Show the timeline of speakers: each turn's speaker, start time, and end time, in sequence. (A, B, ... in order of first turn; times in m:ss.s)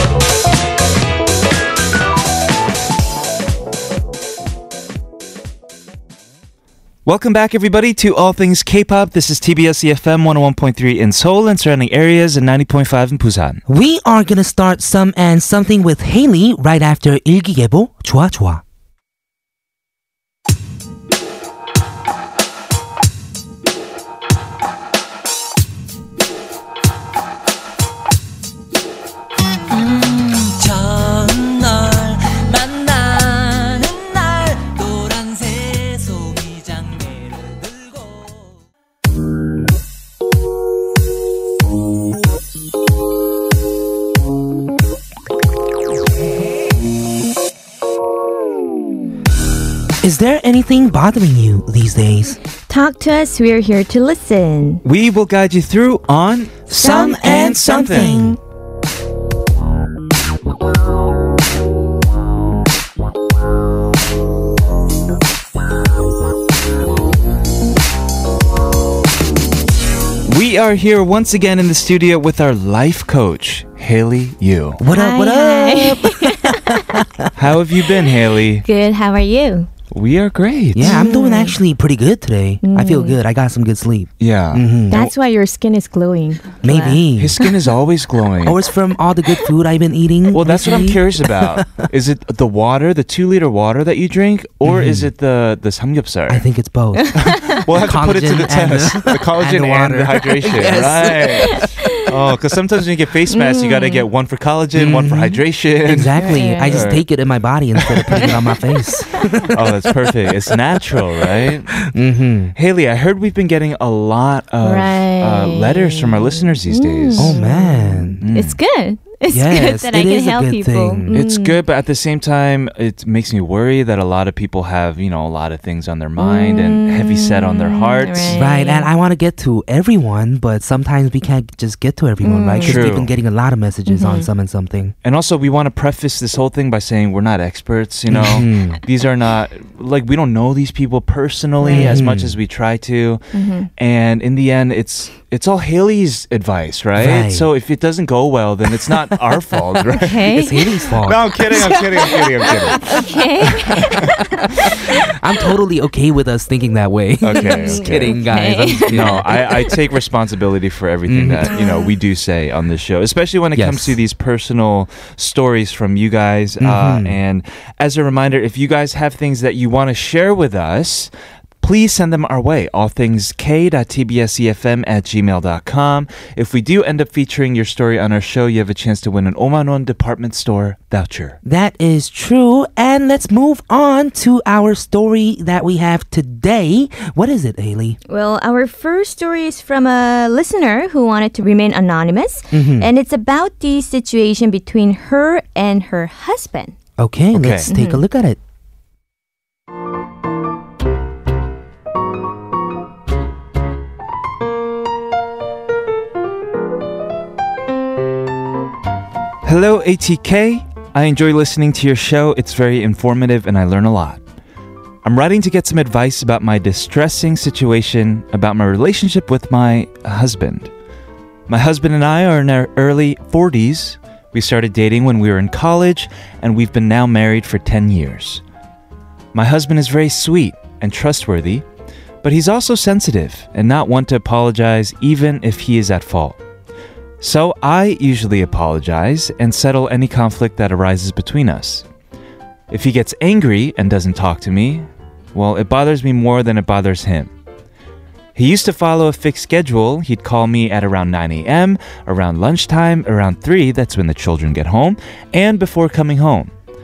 0:07.1-0:13.6 A
0:13.7-0:18.6 B
0:29.7-0:38.5 C
0:50.0-0:52.4 B
0:52.7-0:54.8 D
0:54.8-0:58.3 A
0:56.7-0:58.4 B
0:56.8-0:58.3 D
1:10.3-1:14.8 A
1:14.8-1:17.3 B
1:14.9-1:17.0 D
1:17.4-1:18.7 A
1:18.6-1:19.7 D
1:19.9-1:21.0 A
1:20.7-1:25.0 B
1:20.8-1:21.6 D
1:22.6-1:23.2 D
1:24.2-1:25.1 A
1:24.9-1:27.5 D
1:26.6-1:27.4 B
1:27.2-1:28.6 A
1:28.4-1:31.9 B
1:30.3-1:36.4 A
1:34.6-1:35.1 B
1:36.3-1:41.6 B
1:37.0-1:37.6 D
1:37.2-1:47.0 A
1:41.4-1:42.0 D
1:43.3-1:44.0 D
1:44.8-1:49.9 B
1:46.2-1:46.9 D
1:47.8-1:48.4 A
1:49.1-1:49.4 D
1:49.5-1:51.8 A
1:51.8-1:52.6 B
1:52.6-1:57.4 A
1:54.6-2:01.6 D
1:57.2-1:58.2 B
1:58.2-1:58.6 A
1:59.3-2:01.2 B
2:01.1-2:08.5 A
2:06.2-2:08.9 D
2:08.3-2:15.0 B
2:12.2-2:12.8 D
2:12.6-2:13.1 A
2:13.9-2:14.3 D
2:15.0-2:23.2 A
2:18.1-2:18.8 B
2:21.6-2:22.0 D
2:21.7-2:22.4 B
2:23.3-2:23.7 D
2:23.8-2:30.4 A
2:27.0-2:27.5 B
2:30.0-2:30.9 D
2:30.3-2:32.9 B
2:31.0-2:34.6 A
2:31.5-2:35.1 D
2:33.8-2:39.3 B
2:37.2-2:38.2 A
2:37.4-2:39.7 D
2:38.9-3:01.4 A
2:41.1-2:41.6 B
2:41.5-2:41.9 D
2:43.6-2:44.0 B
2:46.6-2:47.2 B
3:01.4-3:08.0 B
3:08.1-3:16.8 D
3:12.5-3:12.9 B
3:17.0-3:18.4 B
3:17.3-3:17.7 A
3:17.7-3:18.0 D
3:29.4-3:34.2 A
3:35.0-3:40.7 A
3:41.5-3:48.4 A
3:49.3-3:51.6 A
3:52.2-3:56.4 A
3:57.2-4:01.9 A
4:02.7-4:07.3 A
4:08.4-4:16.5 A